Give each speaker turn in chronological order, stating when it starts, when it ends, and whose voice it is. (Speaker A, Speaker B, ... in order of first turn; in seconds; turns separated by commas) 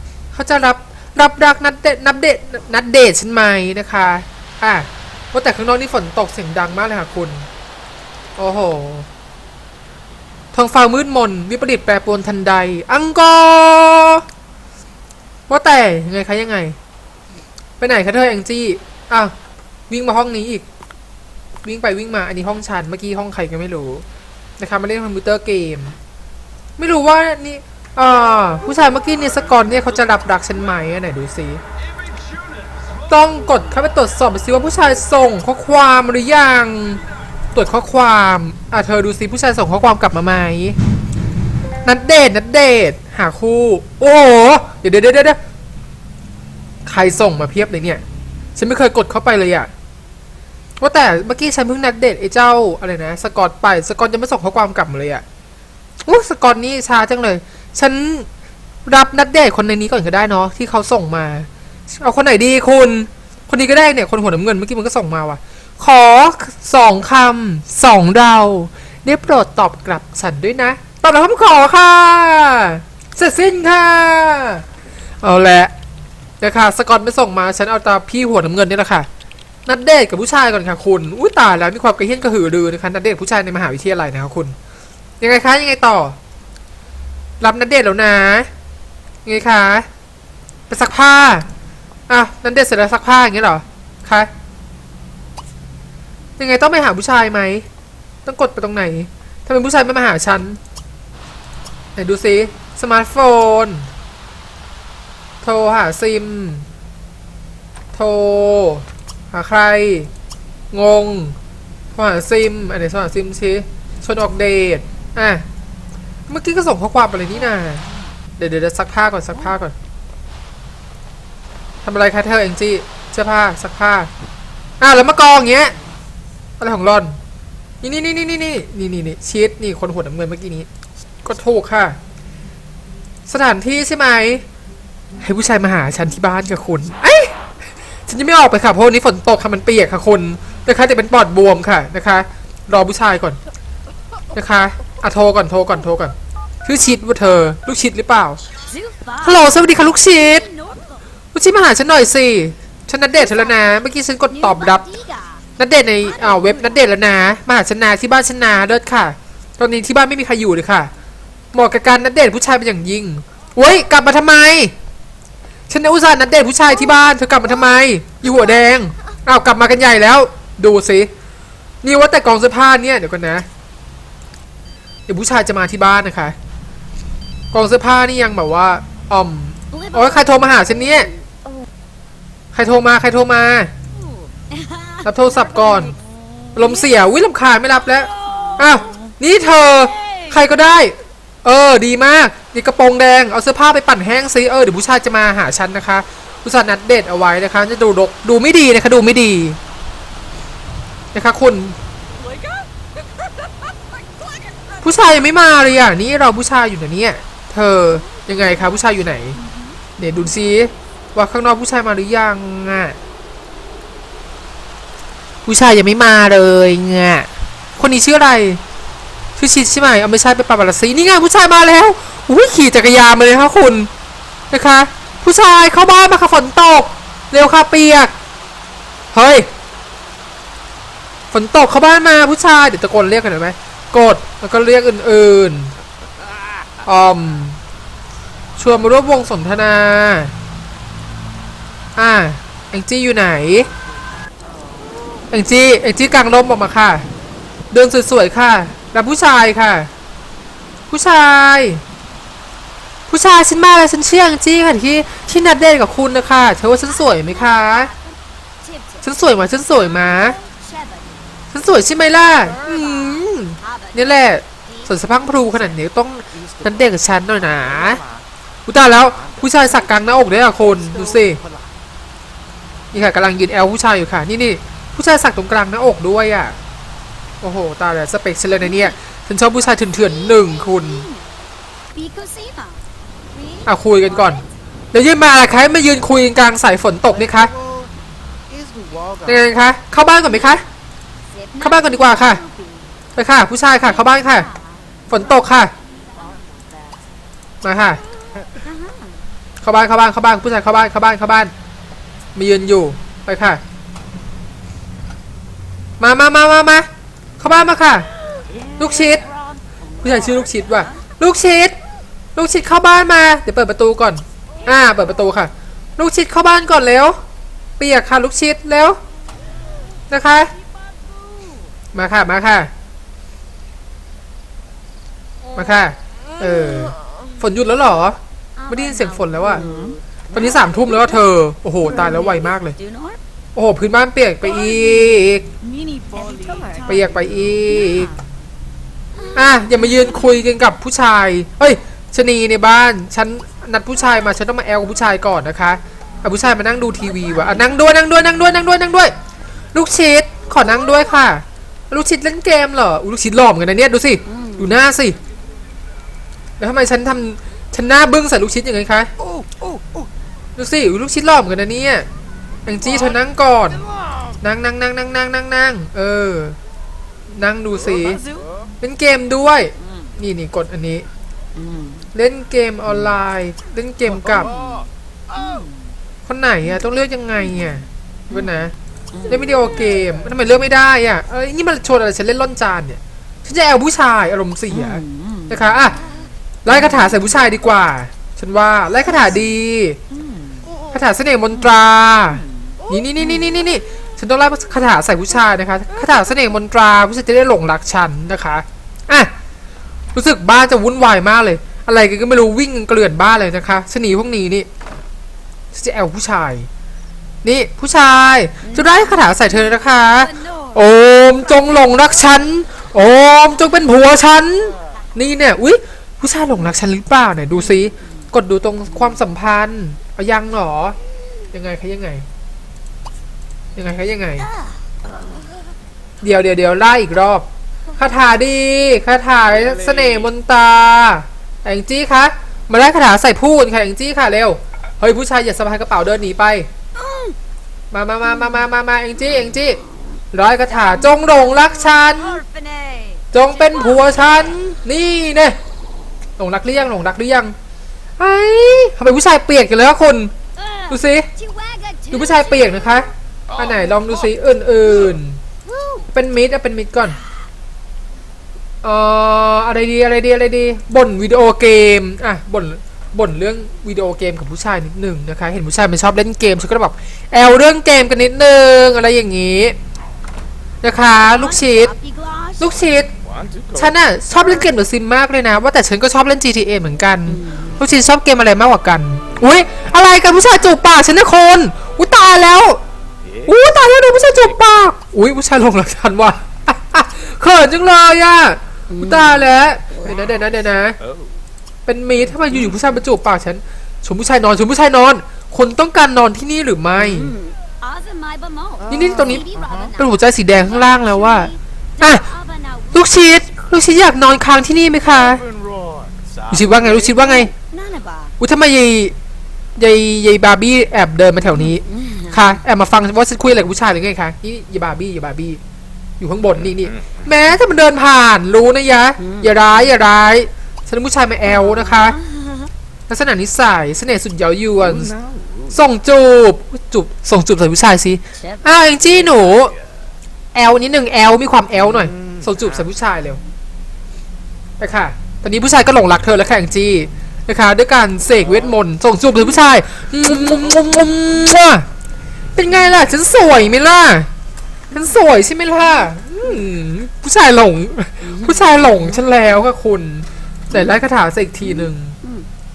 Speaker A: 0.3-7.5, Speaker A: 8.4-9.1, Speaker A: 10.5-14.2, Speaker A: 15.5-16.8, Speaker A: 17.8-19.3, Speaker A: 19.9-20.6, Speaker A: 21.6-24.0, Speaker A: 24.6-26.0, Speaker A: 26.8-31.6, Speaker A: 33.1-37.0, Speaker A: 37.5-40.8, Speaker A: 41.8-45.4, Speaker A: 46.9-48.0, Speaker A: 48.5-49.7, Speaker A: 50.8-55.2, Speaker A: 56.0-58.3, Speaker A: 58.9-74.6, Speaker A: 75.2-75.7, Speaker A: 76.4-79.1, Speaker A: 79.7-84.5, Speaker A: 85.2-86.2, Speaker A: 87.4-88.5, Speaker A: 89.2-89.8, Speaker A: 90.7-91.5, Speaker A: 92.1-94.3, Speaker A: 96.4-97.7, Speaker A: 98.2-100.6, Speaker A: 102.0-103.9, Speaker A: 105.4-106.7, Speaker A: 107.9-110.1, Speaker A: 110.7-111.3, Speaker A: 111.9-115.4, Speaker A: 116.3-117.8, Speaker A: 118.4-119.7, Speaker A: 121.8-124.1, Speaker A: 124.8-125.7, Speaker A: 126.6-127.2, Speaker A: 127.8-130.7, Speaker A: 131.2-132.0, Speaker A: 133.3-134.4, Speaker A: 135.2-137.3, Speaker A: 138.1-143.4, Speaker A: 144.3-148.4, Speaker B: 148.7-151.0, Speaker A: 149.2-150.5, Speaker A: 151.3-154.8, Speaker B: 153.1-156.9, Speaker A: 155.6-160.9, Speaker A: 161.5-164.7, Speaker A: 165.7-171.1, Speaker A: 171.8-173.4, Speaker A: 175.1-176.3, Speaker A: 177.5-181.1, Speaker B: 179.7-181.7, Speaker A: 182.5-183.7, Speaker B: 183.9-186.9, Speaker A: 185.0-185.9, Speaker A: 186.6-199.6, Speaker B: 187.7-190.4, Speaker A: 201.1-201.8, Speaker B: 202.2-202.6, Speaker A: 204.8-209.4, Speaker B: 208.0-209.8, Speaker A: 210.0-213.0, Speaker A: 215.4-218.6, Speaker A: 219.4-223.9, Speaker A: 224.5-228.1, Speaker A: 229.1-229.5, Speaker A: 231.3-235.7, Speaker A: 236.8-237.6, Speaker A: 238.6-240.3, Speaker A: 242.0-243.7, Speaker A: 245.3-247.1, Speaker A: 247.7-249.9, Speaker A: 250.9-251.8, Speaker A: 253.1-257.9, Speaker B: 256.8-261.4, Speaker A: 259.0-260.4, Speaker A: 261.5-268.0, Speaker B: 262.4-265.8, Speaker C: 266.3-268.3, Speaker A: 268.7-271.4, Speaker C: 269.0-271.8, Speaker A: 272.9-276.6, Speaker A: 277.4-281.1, Speaker B: 278.6-278.9, Speaker B: 279.5-281.2, Speaker B: 281.9-284.4, Speaker A: 283.6-284.4, Speaker A: 284.9-287.5, Speaker C: 287.1-287.9, Speaker C: 288.5-289.5, Speaker A: 289.2-290.6, Speaker B: 291.3-292.9, Speaker A: 291.6-292.4, Speaker A: 293.1-294.5, Speaker B: 293.7-296.4, Speaker A: 295.1-295.7, Speaker C: 296.1-297.0, Speaker A: 297.6-298.0, Speaker B: 298.6-299.2, Speaker A: 299.6-301.5, Speaker A: 302.3-303.6, Speaker A: 306.0-306.9, Speaker A: 307.4-308.1, Speaker B: 308.4-311.0, Speaker A: 308.8-309.2, Speaker A: 310.0-311.8, Speaker A: 312.4-317.2, Speaker B: 314.6-314.9, Speaker A: 317.8-319.0, Speaker A: 320.1-320.5, Speaker B: 320.9-321.6, Speaker A: 321.9-322.7, Speaker A: 325.5-329.6, Speaker B: 328.6-331.2, Speaker C: 329.6-330.0, Speaker A: 330.3-332.7, Speaker B: 331.8-333.2, Speaker A: 333.5-335.5, Speaker B: 334.7-335.1, Speaker B: 335.6-338.2, Speaker C: 336.1-337.0, Speaker A: 336.8-338.1, Speaker B: 339.1-340.3, Speaker A: 339.3-349.1, Speaker A: 349.7-355.2, Speaker B: 354.3-354.7, Speaker A: 356.6-359.1, Speaker C: 359.2-360.1, Speaker A: 360.6-362.1, Speaker A: 362.6-363.8, Speaker C: 362.8-364.4, Speaker A: 364.4-366.6, Speaker A: 367.3-368.2, Speaker C: 367.9-368.7, Speaker A: 368.8-371.1, Speaker B: 371.6-372.1, Speaker A: 372.1-374.5, Speaker C: 374.1-375.7, Speaker B: 374.4-375.7, Speaker A: 376.2-378.7, Speaker B: 379.1-379.5, Speaker A: 379.2-386.0, Speaker B: 384.7-386.1, Speaker A: 386.6-390.0, Speaker B: 390.1-390.6, Speaker C: 390.7-390.9, Speaker A: 390.9-399.3, Speaker B: 393.2-393.6, Speaker A: 400.1-404.7, Speaker A: 405.7-406.7, Speaker A: 407.4-421.0, Speaker B: 408.6-412.4, Speaker B: 414.8-415.1, Speaker B: 417.5-418.2, Speaker A: 421.5-422.2, Speaker A: 423.8-424.5, Speaker B: 424.4-425.4, Speaker A: 426.2-436.7, Speaker C: 429.6-430.3, Speaker B: 436.9-437.4, Speaker A: 437.9-439.8, Speaker A: 440.3-442.4, Speaker B: 440.6-444.5, Speaker A: 443.3-445.6, Speaker A: 446.4-447.5, Speaker A: 448.2-450.3, Speaker B: 450.6-453.0, Speaker A: 450.9-451.3, Speaker A: 452.1-455.4, Speaker C: 453.5-454.3, Speaker B: 455.6-456.1, Speaker A: 456.1-457.2, Speaker A: 458.8-469.8, Speaker A: 470.8-471.9, Speaker B: 471.0-472.8, Speaker A: 472.6-473.1, Speaker C: 473.2-474.0, Speaker A: 473.7-482.8, Speaker B: 477.3-477.8, Speaker C: 483.2-483.5, Speaker A: 483.4-491.0, Speaker B: 488.9-490.2, Speaker C: 491.0-491.4, Speaker A: 491.9-497.3, Speaker B: 496.9-503.3, Speaker C: 498.8-499.9, Speaker A: 498.9-499.4, Speaker A: 500.0-502.2, Speaker A: 502.9-505.4, Speaker C: 505.1-507.4, Speaker A: 506.5-507.5, Speaker B: 507.4-508.3, Speaker A: 508.4-509.1, Speaker A: 509.8-515.6, Speaker B: 511.5-512.6, Speaker A: 516.2-522.2, Speaker B: 519.2-519.9, Speaker B: 521.5-522.7, Speaker A: 523.1-525.1, Speaker C: 524.8-525.8, Speaker A: 525.7-529.7, Speaker B: 528.3-528.7, Speaker C: 529.1-529.9, Speaker A: 530.5-533.4, Speaker C: 531.8-532.9, Speaker A: 534.8-541.9, Speaker C: 538.4-538.7, Speaker A: 542.5-544.3, Speaker A: 544.9-552.2, Speaker B: 548.2-549.2, Speaker B: 551.6-552.5